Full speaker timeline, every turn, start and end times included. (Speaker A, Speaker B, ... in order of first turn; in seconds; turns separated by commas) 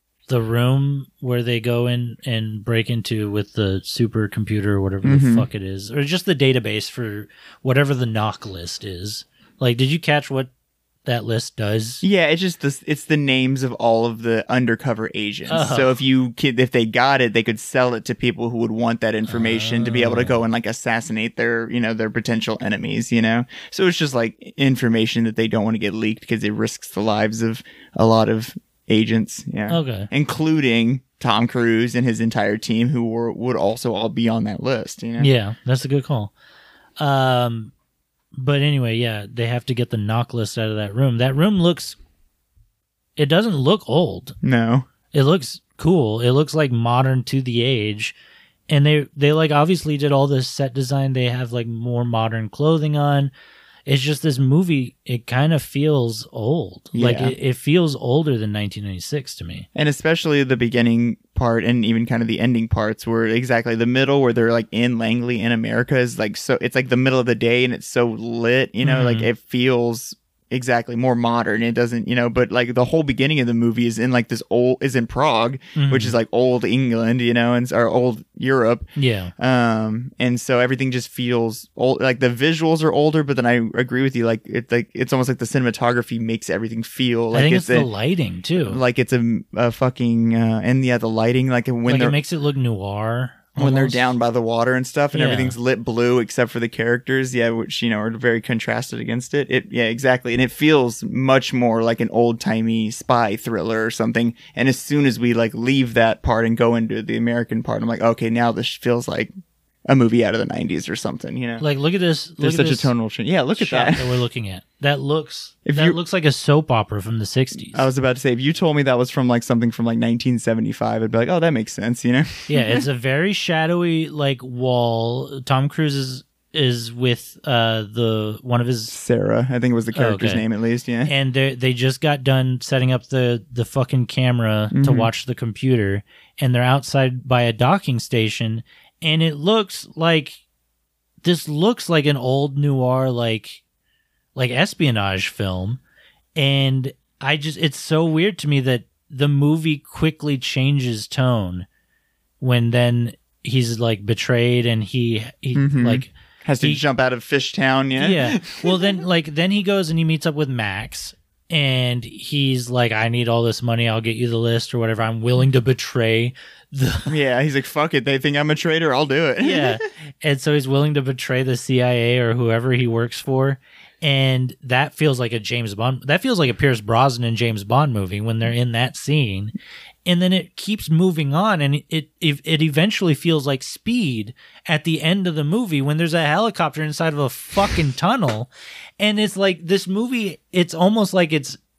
Speaker A: 0.3-10.5, Speaker B: 5.0-5.5, Speaker A: 11.1-12.0, Speaker B: 12.0-35.3, Speaker A: 15.5-16.0, Speaker A: 19.3-20.4, Speaker A: 29.7-30.1, Speaker A: 35.2-36.3, Speaker A: 37.0-37.7, Speaker A: 38.3-42.0, Speaker A: 43.2-44.4, Speaker B: 44.4-44.9, Speaker A: 45.1-48.1, Speaker A: 48.7-53.3, Speaker A: 53.9-59.7, Speaker B: 56.9-57.4, Speaker B: 59.8-87.9, Speaker A: 68.8-69.3, Speaker A: 75.8-76.2, Speaker A: 79.0-79.3, Speaker A: 87.3-88.8, Speaker B: 88.7-92.2, Speaker A: 91.9-94.2, Speaker B: 93.6-109.3, Speaker A: 95.1-95.6, Speaker B: 109.9-111.7, Speaker A: 111.6-112.9, Speaker B: 112.4-114.2, Speaker A: 113.6-117.9, Speaker B: 115.7-116.0, Speaker B: 117.6-122.8, Speaker A: 122.5-129.0, Speaker B: 128.9-131.1, Speaker A: 129.9-130.4, Speaker A: 131.1-140.4, Speaker B: 134.7-135.1, Speaker A: 141.2-143.6, Speaker A: 144.3-145.8, Speaker A: 146.3-151.7, Speaker A: 152.4-156.8, Speaker B: 155.5-159.0, Speaker A: 158.0-167.1, Speaker B: 167.1-169.8, Speaker A: 169.4-179.5, Speaker A: 180.1-191.6